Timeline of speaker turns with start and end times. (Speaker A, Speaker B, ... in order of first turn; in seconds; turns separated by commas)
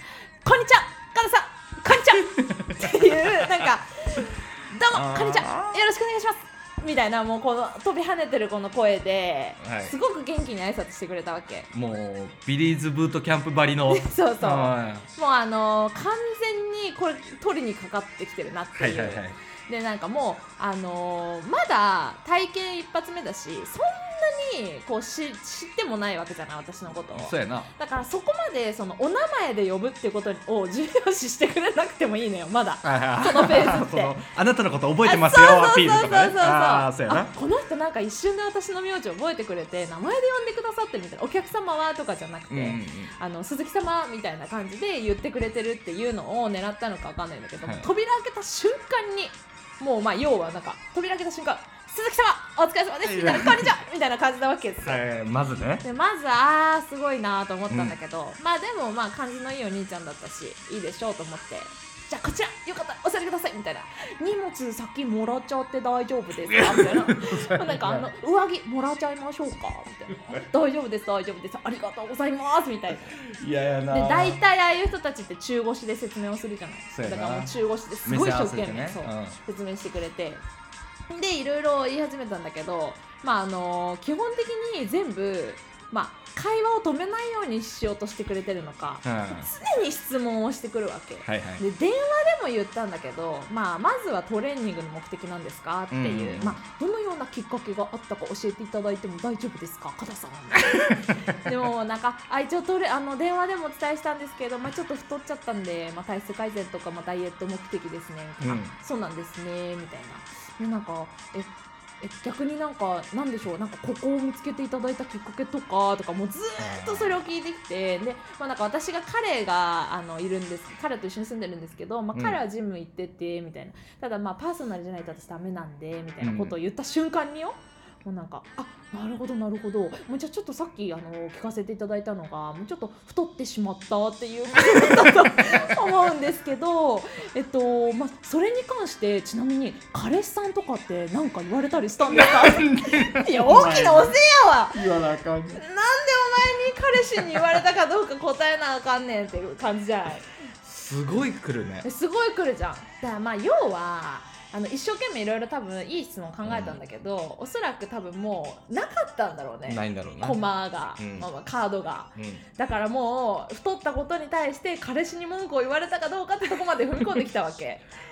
Speaker A: 0.4-11.7, Speaker B: 2.8-3.1, Speaker B: 4.9-5.8, Speaker B: 9.6-9.9, Speaker B: 11.7-15.1, Speaker A: 13.9-34.1, Speaker B: 18.8-19.4, Speaker B: 27.1-27.7, Speaker B: 32.8-37.3, Speaker A: 35.0-55.0, Speaker B: 42.5-43.1, Speaker B: 53.0-53.7, Speaker B: 54.8-55.8, Speaker A: 55.8-73.2, Speaker B: 57.7-58.0, Speaker B: 66.5-68.0, Speaker B: 73.2-74.4, Speaker A: 73.9-80.4, Speaker B: 76.9-77.5, Speaker B: 78.0-79.4, Speaker A: 81.1-144.8, Speaker B: 89.0-89.5, Speaker B: 91.2-91.6, Speaker B: 95.9-96.6, Speaker B: 100.9-101.2, Speaker B: 108.4-108.7, Speaker B: 116.6-117.2, Speaker B: 122.1-122.4, Speaker B: 126.2-126.5, Speaker B: 142.0-144.2, Speaker B: 144.7-145.6, Speaker A: 145.5-150.2, Speaker B: 150.6-151.8, Speaker A: 151.8-167.8, Speaker B: 156.4-156.8, Speaker B: 159.7-160.4, Speaker B: 161.0-161.3, Speaker B: 162.2-162.4